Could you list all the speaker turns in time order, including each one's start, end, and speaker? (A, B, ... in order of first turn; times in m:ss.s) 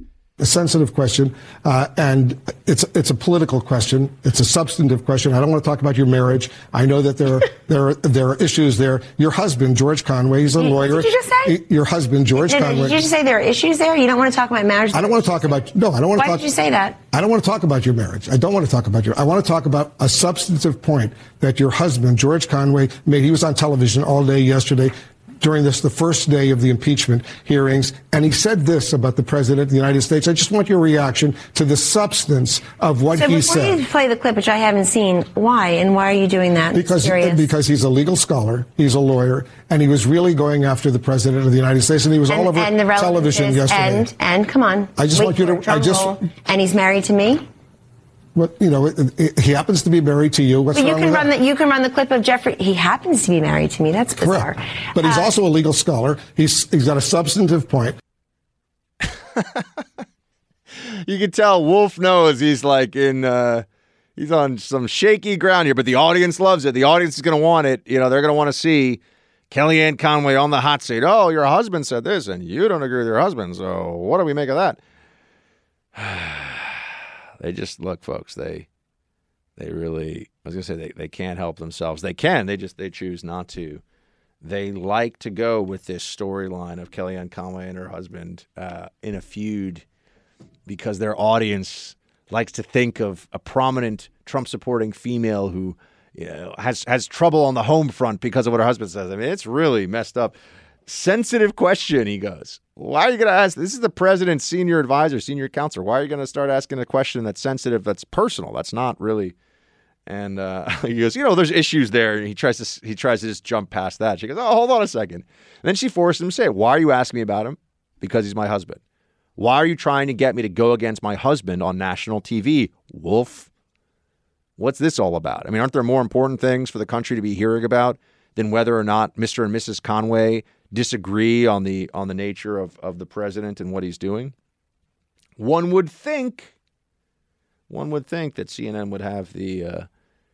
0:00.4-0:13.0 A
0:10.6-0:11.6 B
0:12.4-0:15.3 B
0:14.9-0:16.4 A
0:16.2-0:17.0 B
0:17.1-0:33.8 A
0:33.2-0:37.5 B
0:36.7-0:44.1 A
0:42.3-0:47.4 B
0:45.0-0:46.2 A
0:48.4-0:51.3 A
0:50.7-0:55.3 B
0:54.2-0:58.0 A
0:59.4-0:59.6 C
1:01.0-1:03.6 C
1:04.2-1:14.8 C
1:16.0-1:16.9 C
1:17.4-1:18.7 C
1:19.6-1:23.8 C
1:24.4-1:29.8 C
1:30.7-1:40.4 C
1:40.9-1:49.4 C
1:50.1-1:58.8 C
1:59.4-2:03.5 C
2:04.6-2:14.4 C
2:15.4-2:16.5 C
2:17.7-2:19.9 C